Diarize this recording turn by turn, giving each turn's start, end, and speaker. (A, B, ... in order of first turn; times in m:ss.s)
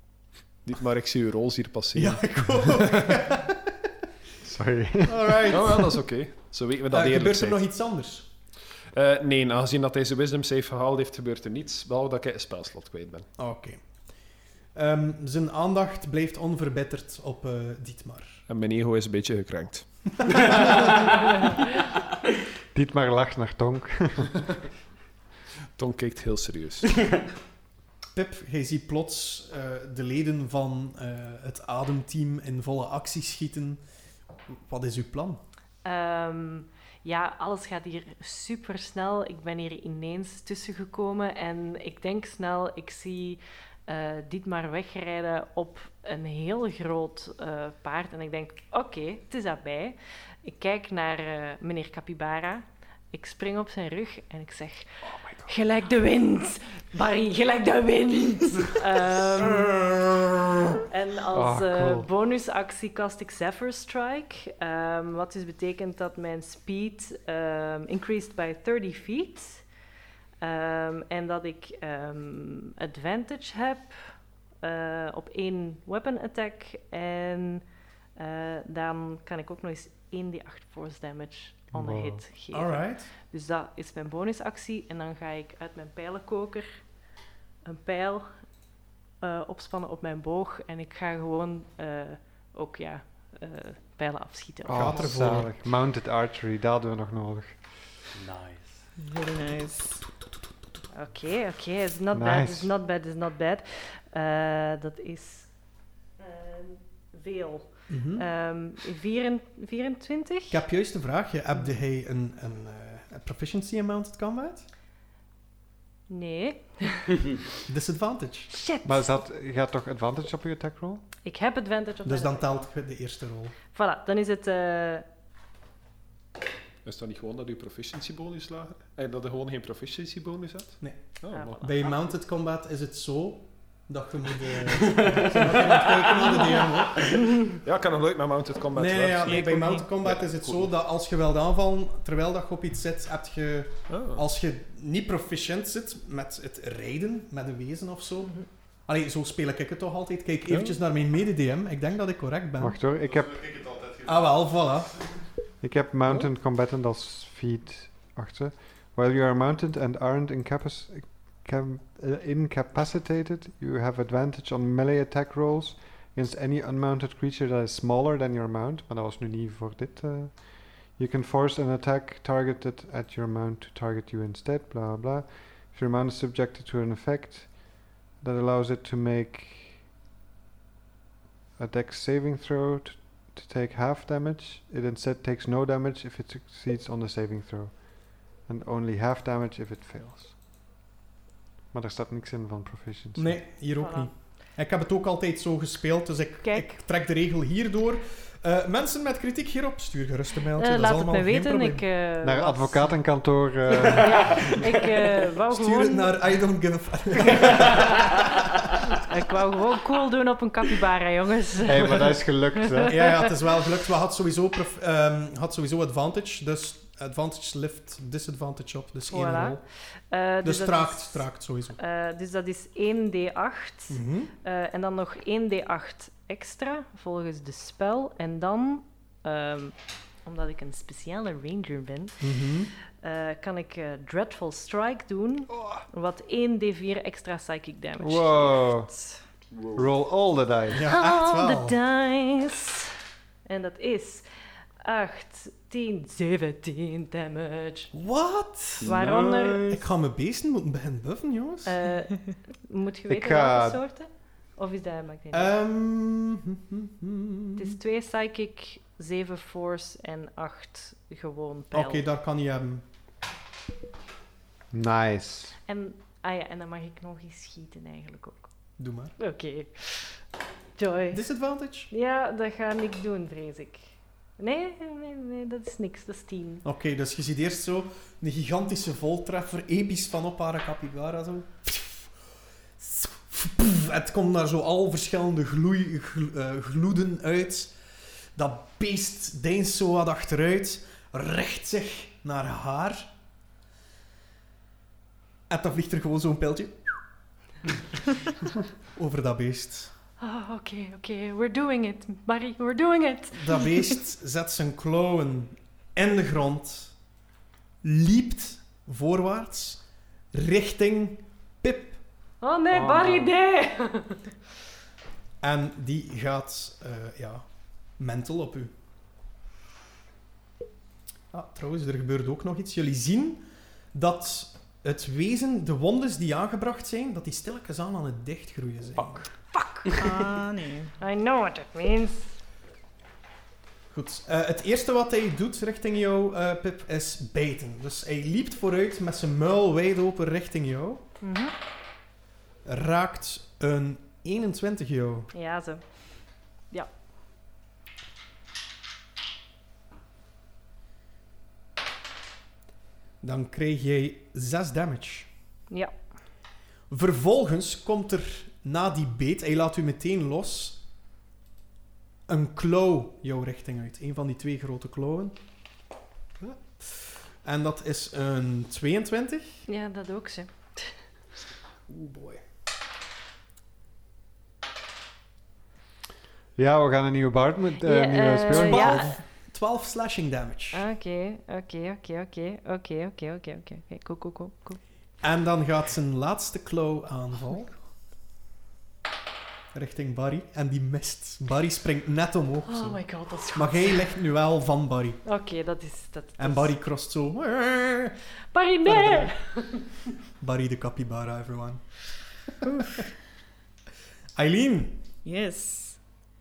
0:00.6-0:03.1 A
0:01.9-0:03.7 B
0:04.4-0:05.5 C
0:05.0-0:06.0 B
0:05.5-0:07.7 A
0:06.9-0:08.3 B
0:08.9-0:13.3 A
0:13.4-0:13.8 B
0:14.7-0:18.4 B
0:18.5-0:19.9 A
0:20.3-0:20.9 B
0:22.7-0:24.4 C
0:25.8-0:26.9 A
0:28.1-0:33.8 B
0:34.5-0:35.4 B
0:35.8-0:59.7 D
0:59.5-1:00.5 B
1:00.9-1:09.6 D
1:01.3-1:02.1 C
1:10.4-1:13.9 D
1:14.6-1:17.6 D
1:18.2-1:26.8 D
1:21.7-1:22.2 C
1:22.5-1:23.1 B
1:27.6-1:28.3 D
1:29.2-1:35.1 D
1:34.6-1:37.6 C
1:34.7-1:35.5 B
1:38.1-1:38.9 E
1:39.0-1:40.0 F
1:40.9-1:45.5 D
1:42.1-1:42.7 C
1:46.2-1:50.6 D
1:47.9-1:48.2 B
1:50.5-1:54.7 B
1:56.1-1:57.2 D
1:57.7-1:58.5 B
1:58.5-1:59.2 D
1:58.8-2:01.0 C
2:01.2-2:02.7 D
2:02.0-2:03.5 B
2:03.7-2:05.0 D
2:06.8-2:11.7 A
2:10.8-2:17.2 B
2:11.3-2:11.9 D
2:14.9-2:16.4 E
2:17.4-2:20.6 A
2:18.7-2:32.8 B
2:19.3-2:19.8 F
2:23.9-2:24.2 A
2:30.5-2:30.8 A
2:32.6-2:33.7 C
2:33.6-2:33.9 A
2:34.0-2:34.9 B
2:35.6-2:59.8 C
3:01.6-3:10.4 C
3:11.7-3:13.4 C
3:13.2-3:21.8 B
3:13.8-3:14.1 D
3:16.4-3:16.8 D
3:20.6-3:22.9 D
3:22.2-3:24.6 C
3:23.8-3:26.1 D
3:25.5-3:28.2 B
3:29.0-3:33.2 D
3:31.6-3:32.9 C
3:32.9-3:39.6 B
3:39.1-3:41.2 D
3:40.4-3:41.8 B
3:41.8-3:52.2 D
3:43.9-3:44.3 B
3:52.2-3:52.7 B
3:52.9-3:59.2 D
3:58.0-3:58.9 C
3:59.5-3:59.9 E
3:59.7-4:00.9 C
4:00.7-4:01.8 B
4:00.8-4:02.9 D
4:03.4-4:04.2 D
4:04.8-4:07.9 D
4:07.9-4:09.1 B
4:08.8-4:09.8 E
4:08.8-4:09.7 D
4:09.6-4:11.7 B
4:11.6-4:15.5 D
4:13.1-4:13.8 C
4:15.3-4:17.8 B
4:17.6-4:22.0 D
4:21.7-4:22.8 B
4:24.7-4:25.5 C
4:25.6-4:28.5 D
4:28.8-4:29.1 B
4:29.2-4:30.2 D
4:30.8-4:31.2 D
4:31.1-4:31.9 B
4:31.9-4:36.6 D
4:36.6-4:42.1 B
4:42.8-4:47.7 B
4:48.3-4:53.1 B
4:55.5-4:56.8 B
4:58.9-4:59.9 B
5:00.2-5:03.7 D
5:03.3-5:06.9 B
5:07.8-5:09.8 B
5:10.3-5:12.0 B
5:12.4-5:14.3 D
5:12.7-5:13.3 C
5:15.4-5:17.4 B
5:18.0-5:18.7 B
5:21.3-5:29.3 B
5:30.0-5:30.9 F
5:31.0-5:32.4 D
5:33.9-5:41.0 B
5:41.2-5:41.5 D
5:42.6-5:45.3 B
5:45.3-5:45.8 D
5:53.2-5:55.3 B
5:55.7-5:55.9 D
5:56.9-6:00.8 B
6:02.3-6:05.4 B
6:06.4-6:09.6 B
6:09.7-6:11.0 D
6:11.9-6:12.4 B
6:16.6-6:19.1 C
6:17.8-6:19.2 D
6:18.5-6:20.8 B
6:20.7-6:24.8 D
6:25.2-6:27.8 B
6:29.7-6:33.0 B
6:32.6-6:34.1 D
6:33.5-6:35.2 B
6:35.2-6:36.7 D
6:36.4-6:38.2 B
6:38.5-6:39.8 D
6:38.8-6:39.3 B
6:40.4-6:42.0 B
6:42.7-6:43.0 B
6:44.3-6:45.0 B
6:45.2-6:46.0 F